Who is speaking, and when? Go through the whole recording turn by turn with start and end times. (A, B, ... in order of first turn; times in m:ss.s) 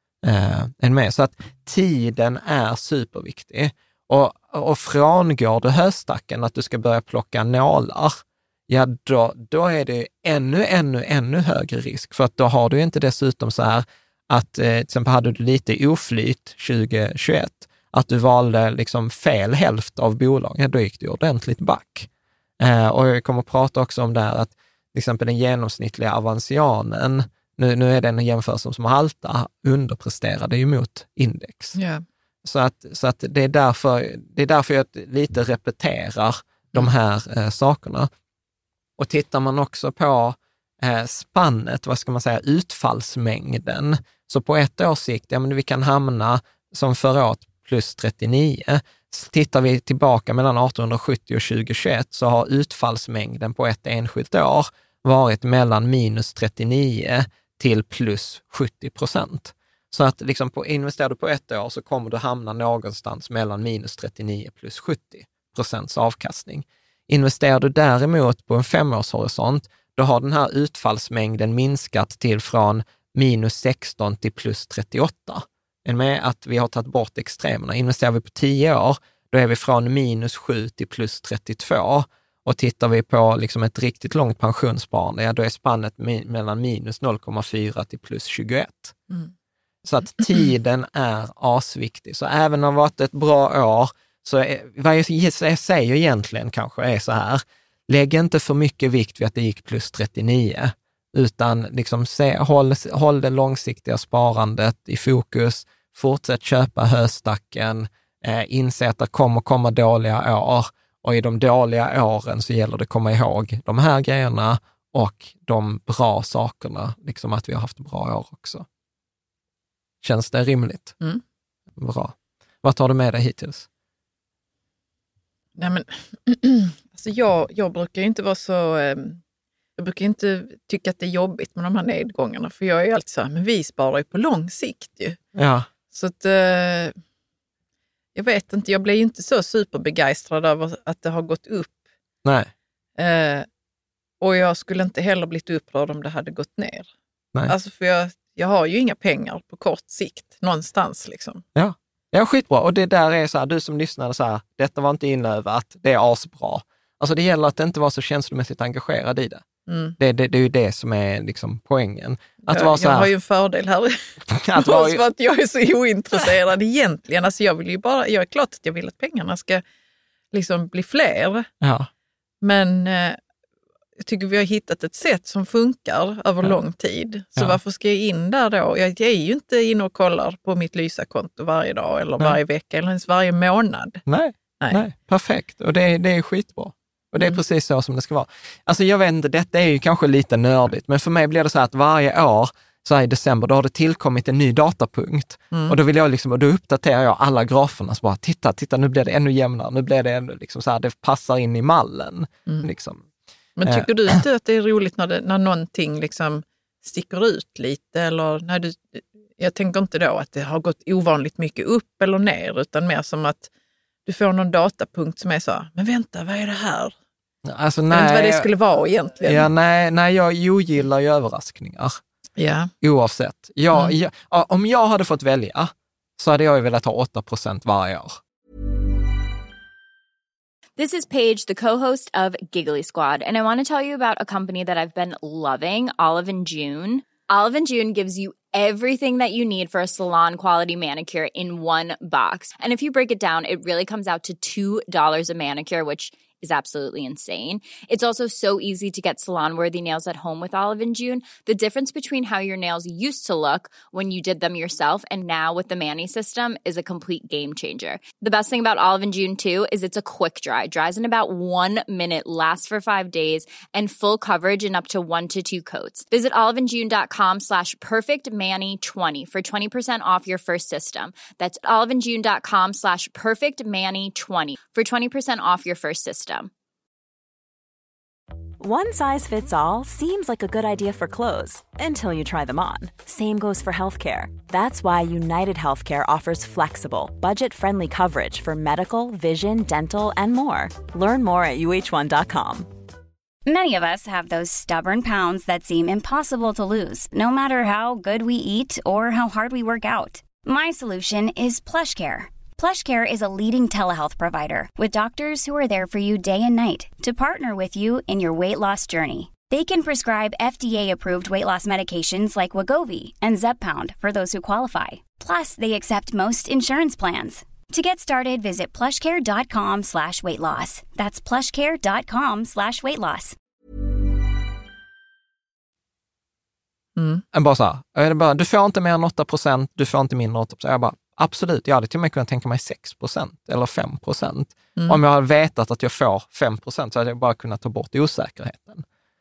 0:00.2-0:22.1 A
0:22.6-0:31.8 A
0:31.7-0:32.0 B
0:32.4-0:38.1 A
0:39.0-1:29.0 A
1:29.8-1:58.6 A
2:00.0-2:00.9 A
2:01.8-2:03.7 A
2:05.6-2:09.2 B
2:09.8-2:15.2 B
2:15.3-2:15.7 A
2:15.9-2:16.9 B
2:18.1-2:21.8 B
2:22.2-2:22.5 A
2:23.0-2:23.5 B
2:24.2-2:26.9 B
2:27.5-2:31.4 B
2:31.5-2:39.4 A
2:39.7-2:40.0 B
2:40.0-2:43.1 A
2:42.4-2:44.0 B
2:44.3-2:45.0 A
2:44.6-2:49.6 B
2:50.3-2:51.5 B
2:51.6-2:51.9 A
2:52.4-2:53.2 B
2:54.0-3:04.0 B
3:04.0-3:23.0 A
3:15.5-3:15.8 B
3:23.6-3:33.5 B
3:23.6-3:24.2 A
3:34.0-3:36.9 B
3:37.4-3:38.5 A
3:37.9-3:39.5 B
3:39.2-3:42.0 A
3:42.4-3:42.7 B
3:42.8-3:48.2 A
3:50.8-4:36.5 C
4:38.6-4:52.7 D
4:53.4-5:23.4 E
5:27.0-5:27.2 B
5:27.3-5:38.8 A